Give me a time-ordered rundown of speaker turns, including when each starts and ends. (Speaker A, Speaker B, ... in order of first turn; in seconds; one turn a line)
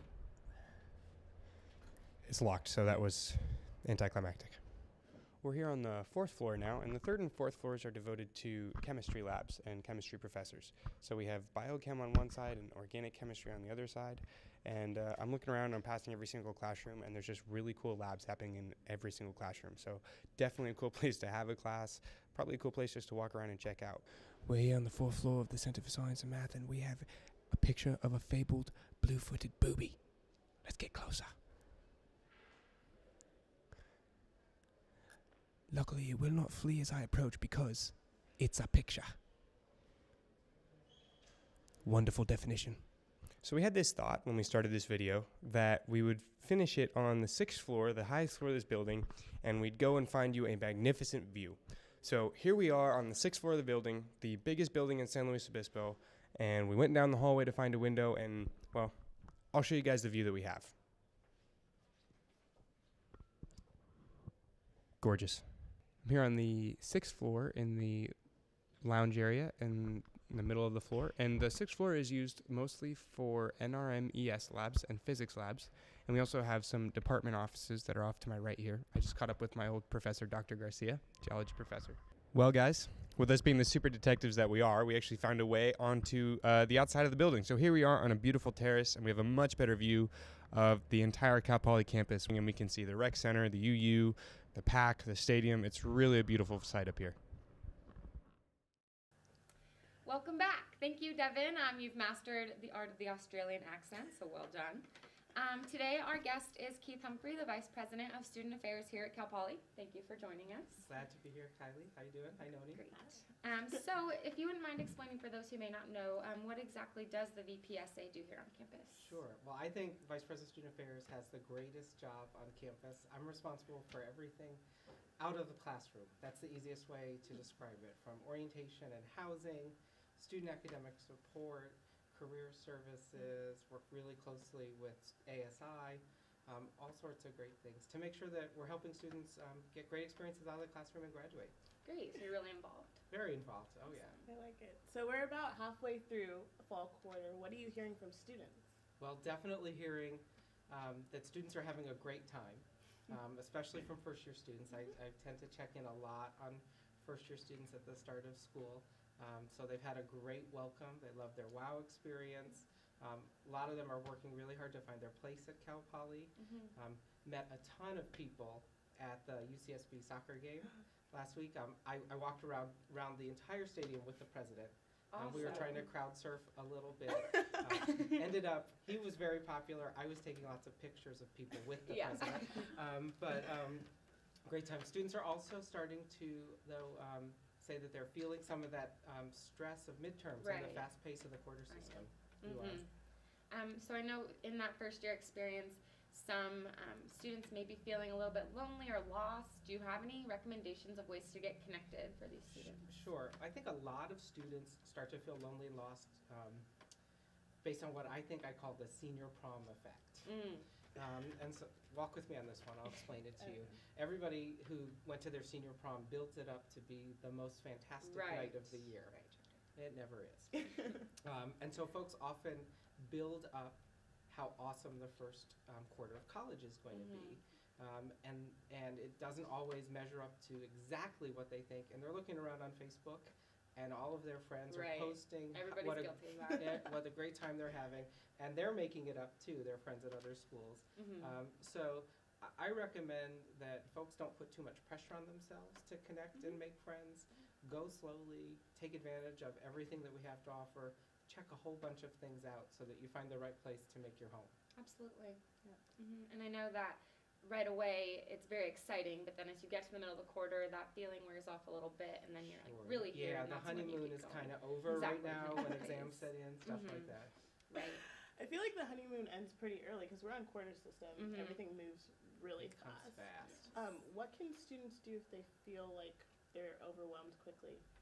Speaker A: 2.2-31.4
Speaker A: 35.7-39.2
Speaker A: 41.8-60.8
Speaker A: 65.0-97.2
Speaker B: 100.0-110.8
Speaker C: 110.8-112.8
Speaker B: 112.7-119.2
Speaker D: 112.9-113.2
Speaker C: 119.0-124.6
Speaker C: 125.2-141.5
Speaker B: 141.8-143.0
Speaker C: 143.1-144.2
Speaker B: 143.9-144.3
Speaker D: 144.3-148.7
Speaker C: 149.0-183.9
Speaker B: 166.4-166.7
Speaker B: 175.1-175.9
Speaker B: 177.9-178.1
Speaker B: 181.8-182.7
Speaker C: 184.5-192.8
Speaker B: 190.4-190.9
Speaker B: 191.7-192.9
Speaker B: 193.5-202.9
Speaker C: 202.5-206.7
Speaker C: 207.6-210.3
Speaker B: 210.2-210.7
Speaker C: 210.9-219.1
Speaker D: 213.4-213.6
Speaker B: 218.0-219.6
Speaker C: 219.8-254.5
Speaker B: 226.9-227.4
Speaker B: 234.7-236.9
Speaker B: 241.0-241.4
Speaker B: 246.4-246.6
Speaker B: 254.8-255.4
Speaker B: 256.0-267.1
Speaker C: 262.6-267.3
Speaker B: 267.7-268.0
Speaker D: 268.4-277.8
Speaker B: 271.2-271.6
Speaker C: 272.6-273.7